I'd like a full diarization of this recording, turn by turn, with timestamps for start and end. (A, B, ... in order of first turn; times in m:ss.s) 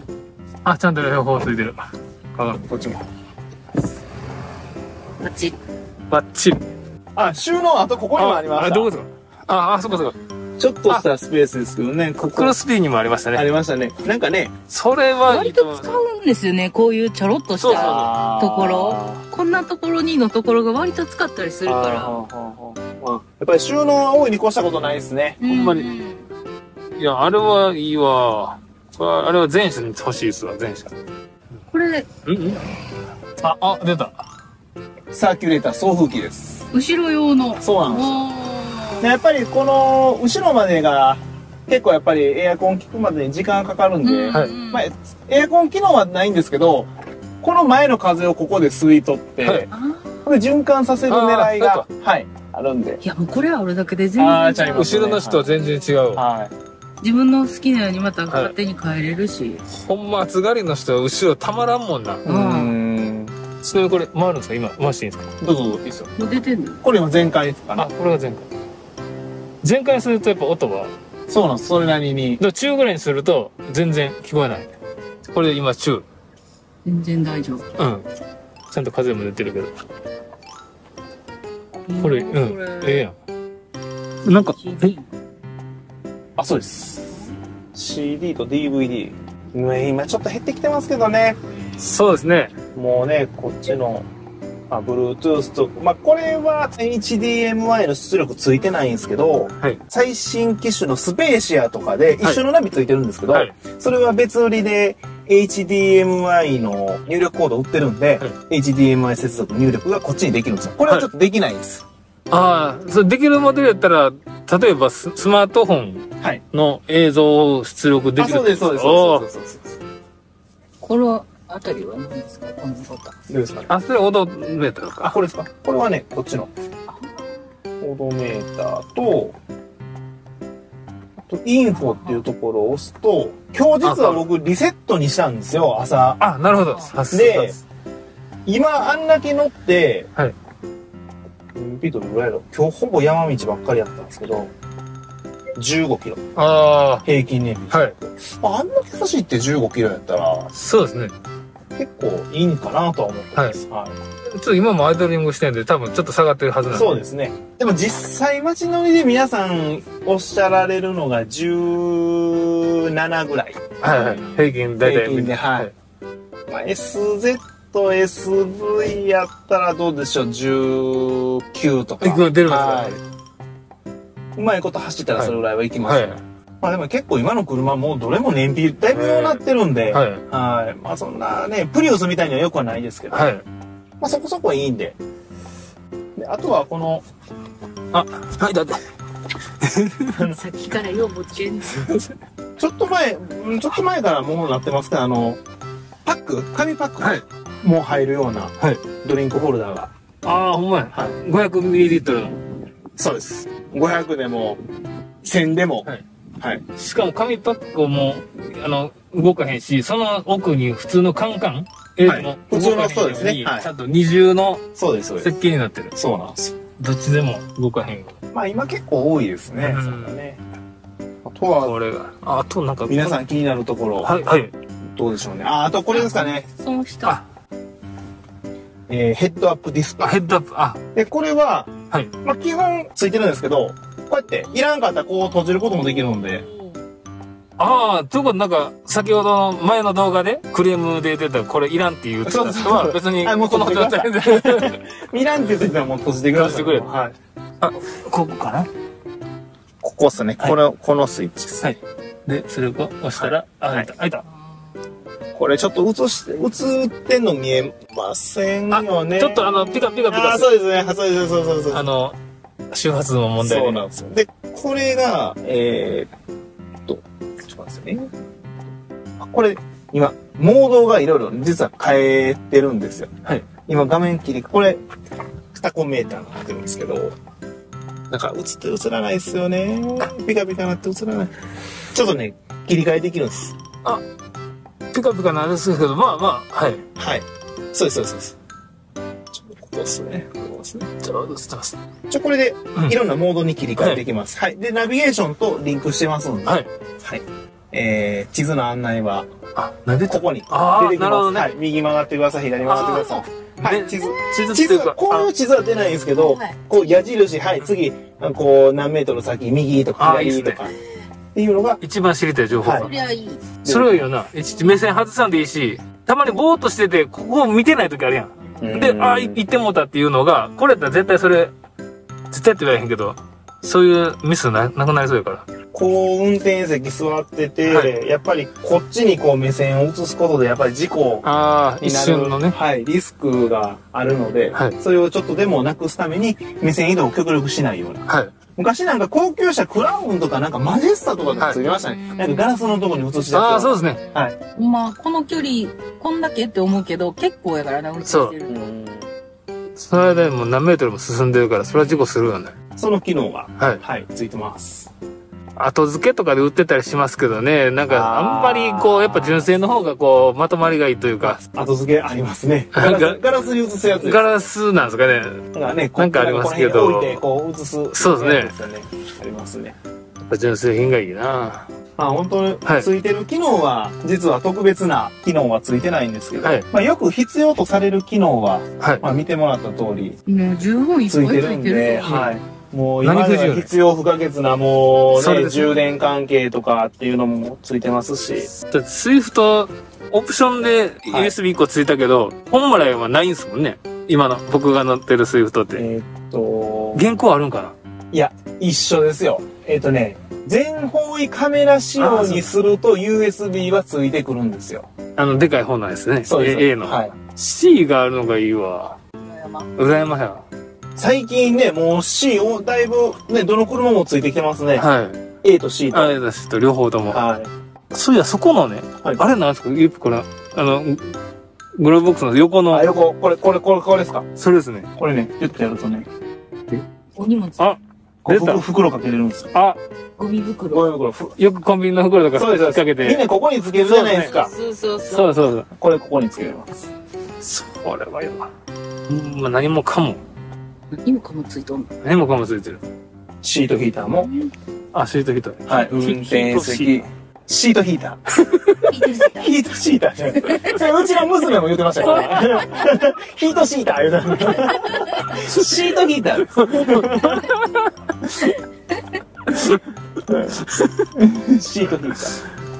0:00.6-0:02.6 A
0:02.5-0:03.0 B
0:05.2-0:05.6 C
0:06.1-0:06.6 A
0:07.1-0:08.9 B
0:08.2-0:10.2 A
0:10.6-0:12.6 B
0:12.2-0:13.4 A
0:13.3-0:14.5 B
0:14.7-0:15.9 A
0:15.3-0:22.2 C
0:17.6-0:18.1 A
0:17.7-0:19.2 B
0:21.6-0:25.4 B
0:25.4-0:26.2 C
0:25.4-0:25.9 A
0:27.0-0:30.9 A
0:31.7-0:32.1 C
0:32.2-0:32.6 A
0:33.4-0:34.2 A
0:35.1-0:36.7 B
0:36.7-0:39.1 C
0:37.6-0:38.2 B
0:39.0-0:49.7 B
0:44.0-0:44.9 C
0:49.4-0:49.7 A
0:49.7-0:50.2 C
0:50.2-0:53.0 B
0:51.1-0:51.9 A
0:53.0-0:56.0 C
0:54.2-0:55.5 B
0:54.7-0:56.2 A
0:56.1-0:56.5 B
0:57.0-0:59.6 C
0:58.3-0:58.5 A
0:59.7-1:02.2 A
1:02.2-1:03.4 B
1:02.2-1:02.8 C
1:03.6-1:05.3 A
1:05.4-1:06.1 B
1:06.2-1:06.8 C
1:06.8-1:07.9 B
1:07.8-1:08.4 A
1:09.6-1:10.9 A
1:11.3-1:12.4 B
1:12.4-1:14.7 A
1:15.3-1:16.0 A
1:16.8-1:17.6 C
1:17.8-1:18.0 A
1:18.7-1:19.7 A
1:21.9-1:23.0 C
1:22.0-1:23.1 A
1:24.2-1:25.0 A
1:24.3-1:25.0 C
1:26.4-1:27.2 B
1:27.7-1:31.4 B
1:31.8-1:32.5 A
1:32.7-1:34.0 B
1:34.7-1:51.8 B
1:52.3-1:59.2 A
1:58.2-1:59.7 B
2:00.8-2:03.2 C
2:03.3-2:03.7 B
2:03.7-2:05.1 A
2:05.0-2:06.5 B
2:06.9-2:07.2 C
2:07.8-2:09.3 B
2:11.2-2:16.2 B
2:13.8-2:14.2 A
2:16.2-2:17.6 A
2:17.1-2:17.6 B
2:18.4-2:20.1 B
2:21.5-2:24.5 B
2:25.6-2:26.3 B
2:26.3-2:27.0 A
2:27.0-2:30.5 B
2:30.5-2:31.1 A
2:31.8-2:34.0 B
2:34.3-2:37.0 A
2:36.7-2:44.2 B
2:43.8-2:45.7 A
2:44.8-2:45.7 B
2:46.5-2:53.0 B
2:52.0-2:53.0 A
2:54.4-3:03.3 B
2:55.2-2:56.2 A
2:58.9-3:00.2 A
3:03.1-3:03.4 A
3:04.0-3:05.0 B
3:06.2-3:07.0 B
3:07.9-3:08.8 A
3:09.6-3:10.2 A
3:10.2-3:11.9 C
3:11.7-3:12.1 A
3:12.6-3:15.4 B
3:16.0-3:19.9 B
3:20.2-3:22.4 A
3:23.0-3:24.6 B
3:25.2-3:25.9 B
3:26.8-3:35.9 A
3:32.0-3:33.7 B
3:34.8-3:35.3 B
3:35.9-3:36.5 B
3:36.8-3:38.2 A
3:38.3-3:40.4 B
3:39.6-3:40.2 A
3:41.2-3:41.8 B
3:41.6-3:43.2 A
3:42.9-3:44.1 B
3:44.0-3:44.5 A
3:44.8-3:46.5 B
3:45.9-3:47.2 C
3:48.9-3:50.2 B
3:50.0-3:50.8 A
3:50.9-3:56.4 B
3:57.6-4:04.8 A
4:02.2-4:07.1 B
4:06.3-4:06.9 A
4:07.6-4:08.7 A
4:09.8-4:11.7 B
4:11.6-4:14.2 A
4:13.2-4:13.9 B
4:15.3-4:21.8 B
4:18.7-4:20.5 A
4:21.7-4:22.2 A
4:22.7-4:23.8 A
4:23.4-4:26.1 B
4:26.9-4:28.1 B
4:29.2-4:34.8 B
4:35.5-4:37.1 B
4:38.1-4:41.3 B
4:41.9-4:43.5 B
4:44.9-4:46.8 A
4:47.0-4:48.4 B
4:49.3-4:50.9 B
4:51.0-4:51.8 A
4:52.1-4:59.3 B
4:53.8-4:54.0 A
4:59.6-5:01.5 A
5:00.0-5:10.7 B
5:02.6-5:05.3 A
5:02.8-5:03.2 C
5:06.1-5:06.6 C
5:10.0-5:10.6 A
5:11.3-5:11.8 B
5:11.8-5:12.9 A
5:12.6-5:12.9 B
5:12.6-5:13.5 C
5:13.6-5:14.1 B
5:13.6-5:21.5 A
5:18.6-5:19.4 B
5:22.3-5:25.4 A
5:25.7-5:31.3 B
5:27.7-5:27.9 A
5:31.2-5:32.6 A
5:31.8-5:44.3 B
5:38.1-5:38.3 A
5:41.4-5:41.6 A
5:41.8-5:42.3 C
5:43.3-5:44.0 A
5:44.5-5:48.7 C
5:48.0-5:48.3 A
5:48.5-5:49.1 B
5:49.8-5:52.5 A
5:52.8-5:54.9 B
5:55.6-6:01.4 A
5:57.9-5:59.5 B
6:01.2-6:04.3 B
6:02.7-6:03.2 A
6:04.0-6:07.2 A
6:05.5-6:09.8 B
6:07.9-6:08.6 A
6:10.2-6:11.7 A
6:12.0-6:20.2 B
6:18.8-6:19.0 A
6:20.3-6:22.4 C
6:21.1-6:28.5 B
6:22.0-6:22.3 A
6:23.0-6:23.7 A
6:25.1-6:25.7 A
6:28.6-6:35.9 A
6:31.1-6:31.3 B
6:35.7-6:37.0 B
6:36.9-6:37.7 A
6:38.1-6:44.9 B
6:42.0-6:42.4 A
6:45.2-6:49.0 A
6:46.2-6:47.1 B
6:49.2-6:49.7 C
6:49.8-6:50.4 A
6:51.0-6:54.8 B
6:54.8-6:55.2 A
6:55.4-6:56.2 B
6:55.9-6:57.2 A
6:57.1-6:57.5 B
6:57.9-7:01.2 A
7:01.8-7:02.9 A
7:02.7-7:04.3 B
7:04.4-7:04.9 A
7:05.0-7:06.1 B
7:07.2-7:07.8 C
7:07.6-7:08.6 A
7:08.2-7:09.5 B
7:09.5-7:09.8 A
7:10.2-7:10.9 C
7:10.7-7:11.4 B
7:11.4-7:13.2 A
7:12.3-7:14.5 B
7:13.8-7:15.4 C
7:15.1-7:15.7 A
7:15.7-7:16.9 B
7:17.4-7:18.5 A
7:19.1-7:20.2 A
7:20.9-7:21.9 C
7:22.0-7:22.8 A
7:23.4-7:24.3 B
7:24.9-7:27.0 A
7:25.6-7:37.4 B
7:28.5-7:28.9 A
7:28.9-7:29.3 C
7:35.3-7:35.6 A
7:36.6-7:37.9 A
7:39.5-7:39.8 A
7:40.5-7:41.1 A
7:41.1-7:42.4 B